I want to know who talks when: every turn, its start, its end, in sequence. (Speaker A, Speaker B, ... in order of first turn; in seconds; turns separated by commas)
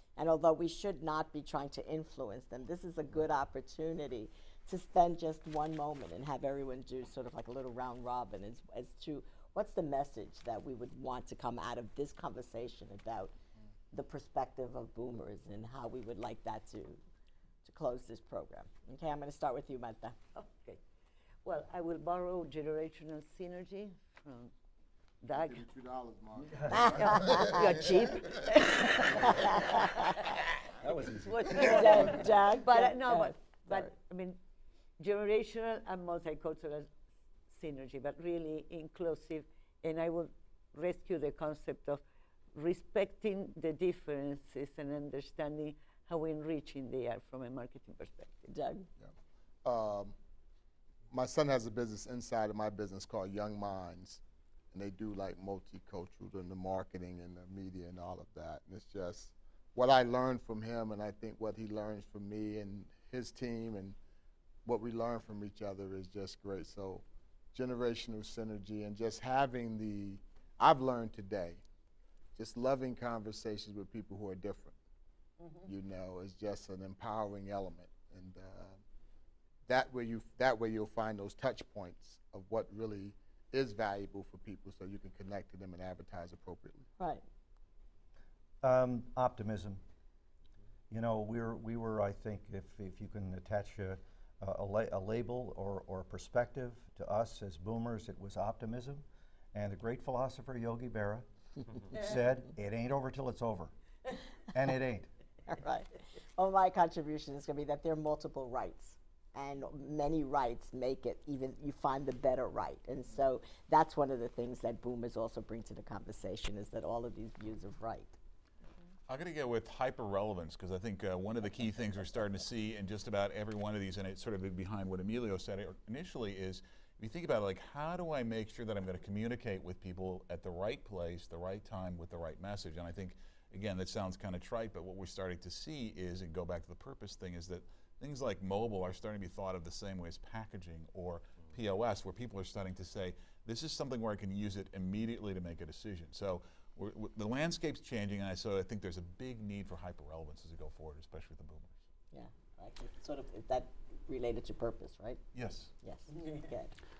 Speaker A: 0.2-13.3, Speaker A: 13.9-17.0, Speaker A: 17.6-20.2, Speaker B: 20.4-20.8, Speaker B: 21.4-24.5, Speaker B: 25.2-25.7, Speaker C: 25.4-28.0, Speaker D: 26.5-26.9, Speaker A: 26.7-27.9, Speaker B: 26.9-30.2, Speaker A: 29.2-30.1, Speaker D: 30.8-32.3, Speaker B: 31.2-34.4, Speaker A: 31.6-33.9, Speaker B: 35.0-36.9, Speaker B: 37.5-42.0, Speaker B: 42.5-48.5, Speaker A: 48.5-48.9, Speaker C: 49.6-50.2, Speaker C: 51.1-54.2, Speaker C: 54.7-64.0, Speaker C: 64.7-71.6, Speaker C: 72.3-74.8, Speaker B: 75.4-75.7, Speaker C: 75.7-78.8, Speaker C: 79.7-86.9, Speaker D: 88.6-89.8, Speaker D: 90.9-101.3, Speaker D: 101.9-103.7, Speaker D: 104.5-105.1, Speaker A: 105.5-118.2, Speaker E: 119.1-151.8, Speaker A: 152.1-155.2, Speaker E: 155.3-155.7, Speaker A: 155.8-156.7